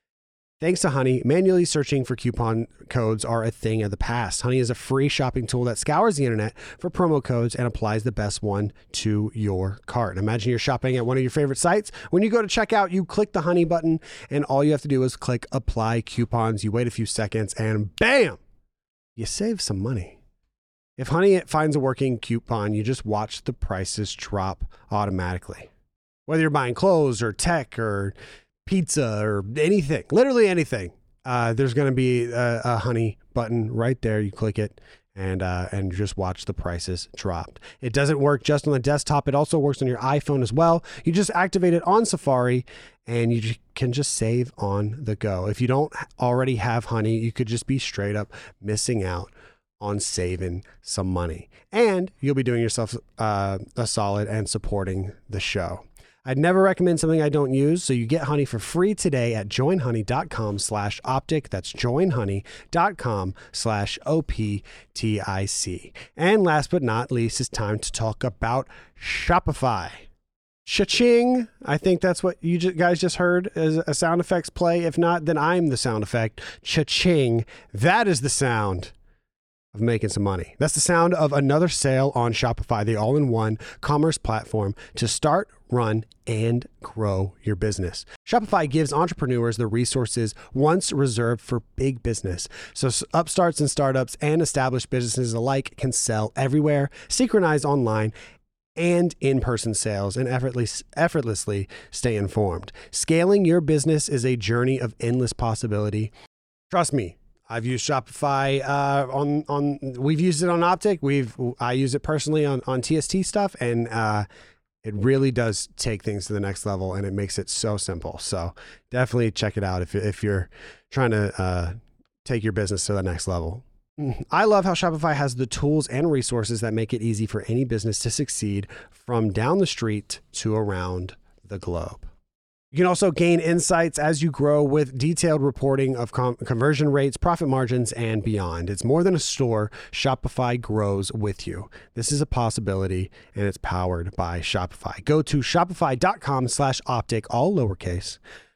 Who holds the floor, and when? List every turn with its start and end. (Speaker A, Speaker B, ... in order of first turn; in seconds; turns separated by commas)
Speaker A: 0.6-18.4, Speaker A: 19.1-20.2, Speaker A: 21.0-25.7, Speaker A: 26.3-28.1, Speaker A: 28.6-70.0, Speaker A: 70.7-78.9, Speaker A: 79.7-98.1, Speaker A: 98.8-106.1, Speaker A: 106.7-114.3, Speaker A: 114.8-132.1, Speaker A: 132.7-148.2